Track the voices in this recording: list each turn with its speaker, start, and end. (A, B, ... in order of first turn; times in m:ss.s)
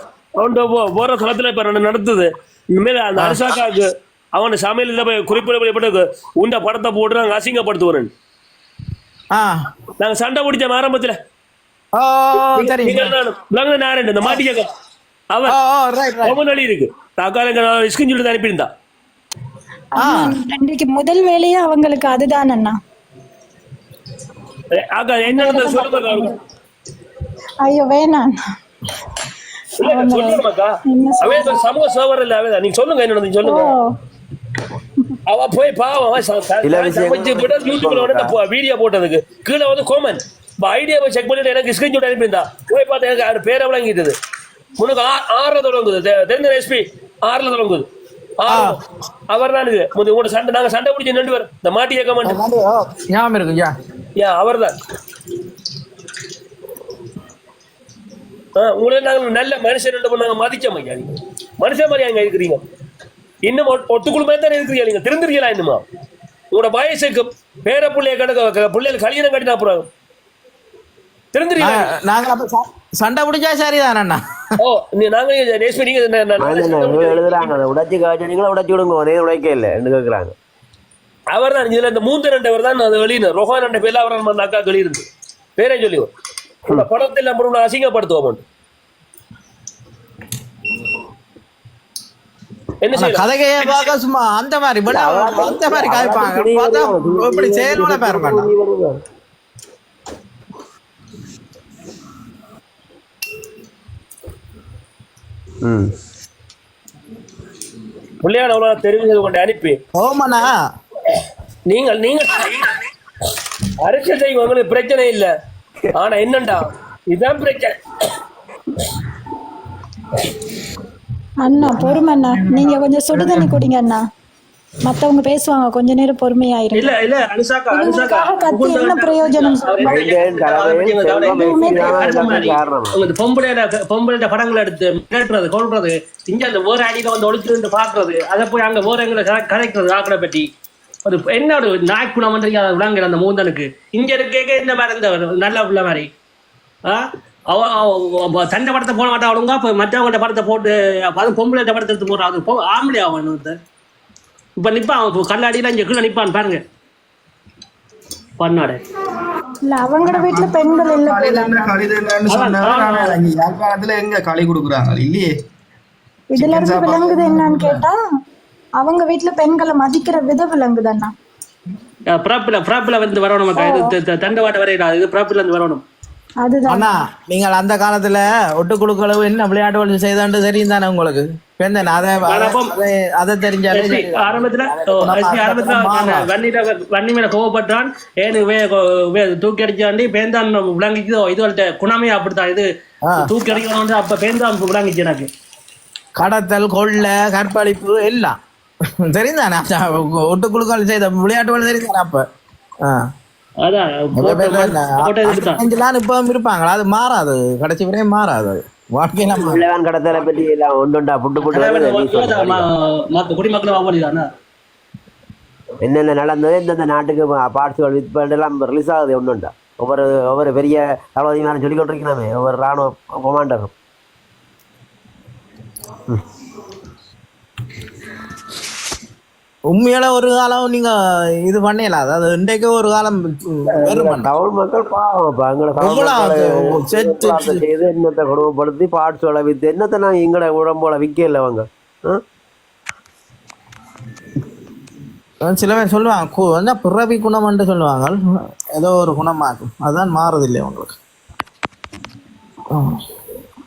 0:00.4-0:08.1 A
0:09.3-0:09.6 B
0:10.0-0:11.2 A
0:12.0-0:13.1 B
0:12.6-0:14.7 A
0:15.5-0:16.4 B
0:16.2-0:18.7 A
0:20.0-0:22.8 C
0:20.0-0:20.3 B
0:24.7-0:26.3 A
0:25.2-0:26.3 C
0:27.6-0:28.3 C
0:29.8-0:30.7 A
0:29.8-0:31.6 C
0:31.2-0:33.8 A
0:33.4-0:33.9 C
0:35.3-0:44.2 A
0:36.6-0:38.4 D
0:44.8-0:47.9 A
0:48.4-0:52.4 A
0:48.5-0:48.8 B
0:52.2-0:53.7 B
0:54.2-0:54.7 A
0:58.6-1:02.6 A
1:03.4-1:05.8 A
1:06.5-1:09.9 A
1:11.3-1:11.9 A
1:11.6-1:14.2 B
1:14.6-1:17.5 A
1:16.4-1:20.4 D
1:21.3-1:25.1 A
1:25.6-1:26.1 A
1:26.7-1:28.4 A
1:32.8-1:33.8 A
1:32.9-1:38.5 B
1:34.9-1:39.0 D
1:45.6-1:45.9 D
1:48.2-1:49.8 A
1:50.0-1:50.6 B
1:51.7-1:52.7 A
1:53.8-1:55.3 A
1:56.0-1:57.7 A
2:01.4-2:04.0 C
2:01.8-2:03.6 E
2:04.9-2:06.9 C
2:06.7-2:20.5 F
2:07.7-2:10.1 C
2:09.9-2:13.0 D
2:11.3-2:12.4 C
2:21.0-2:26.1 F
2:26.9-2:33.6 F
2:34.6-2:36.6 F
2:38.4-2:38.8 F
2:39.6-2:41.7 C
2:40.0-2:45.3 E
2:42.3-2:43.2 F
2:46.3-2:48.0 C
2:46.4-2:47.9 E
2:48.8-2:51.1 C
2:52.1-2:55.8 F
2:53.6-2:54.0 C
2:56.4-2:57.0 C
2:56.7-3:06.3 B
3:02.3-3:02.7 F
3:03.7-3:12.7 F
3:13.2-3:15.3 F
3:16.2-3:18.4 B
3:19.1-3:22.2 B
3:23.6-3:25.6 F
3:24.2-3:29.7 B
3:29.4-3:32.6 D
3:31.4-3:34.3 F
3:35.8-3:43.7 D
3:49.7-3:54.4 B
3:53.7-4:02.2 D
3:55.8-3:57.7 B
4:05.4-4:08.2 B
4:08.8-4:11.0 B